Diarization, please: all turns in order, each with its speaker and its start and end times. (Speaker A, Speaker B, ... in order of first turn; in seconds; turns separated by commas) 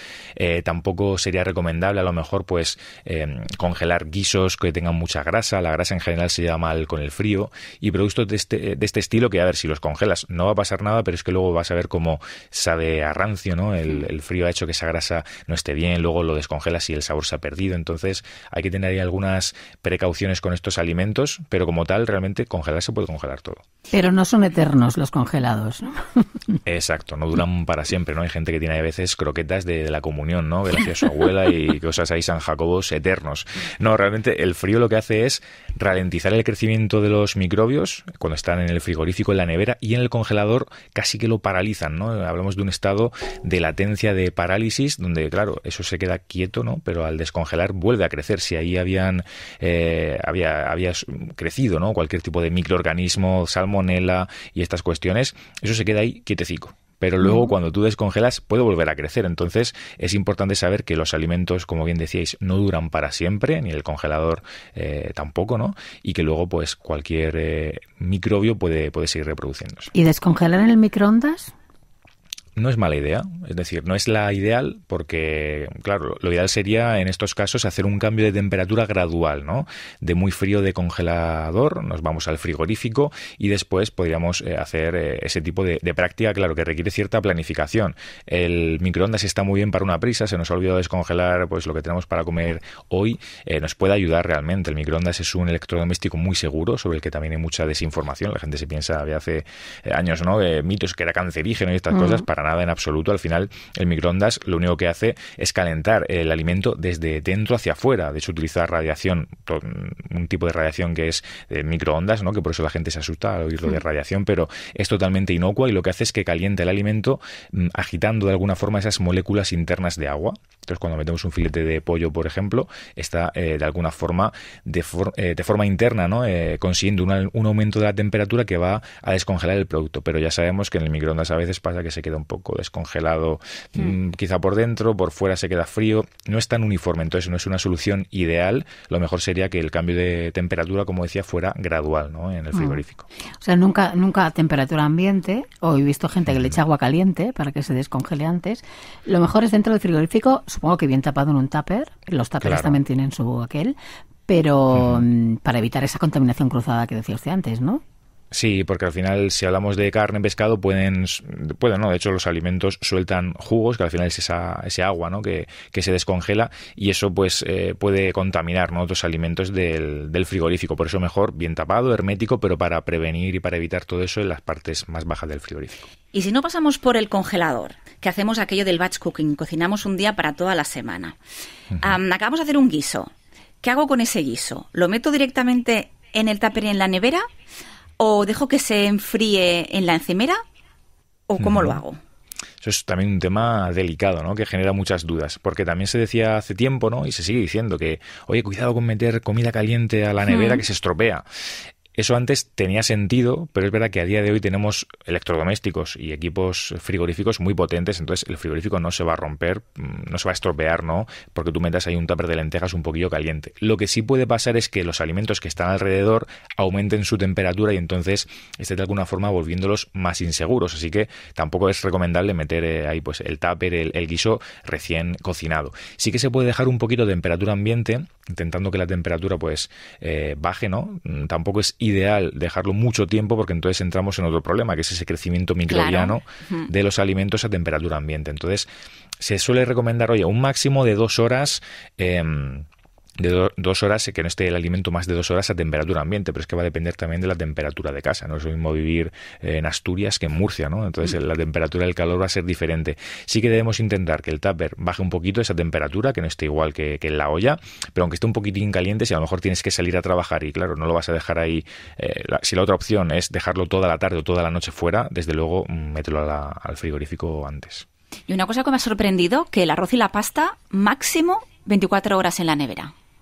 Speaker A: 0.3-23.6, Speaker B: 23.9-26.6, Speaker A: 26.6-69.9, Speaker B: 69.9-71.5, Speaker A: 72.5-143.1, Speaker B: 143.4-153.7, Speaker A: 152.4-152.8, Speaker B: 154.3-157.8, Speaker A: 154.8-155.0, Speaker A: 158.3-175.9, Speaker C: 176.1-181.2, Speaker A: 181.7-182.0, Speaker C: 181.8-183.1, Speaker C: 183.6-187.2, Speaker C: 188.0-190.4, Speaker C: 191.3-192.0, Speaker A: 191.4-191.8, Speaker A: 192.6-201.2, Speaker C: 200.3-200.6, Speaker A: 201.9-238.7, Speaker C: 235.7-236.7, Speaker A: 239.2-242.7, Speaker A: 243.2-267.9, Speaker C: 268.3-272.9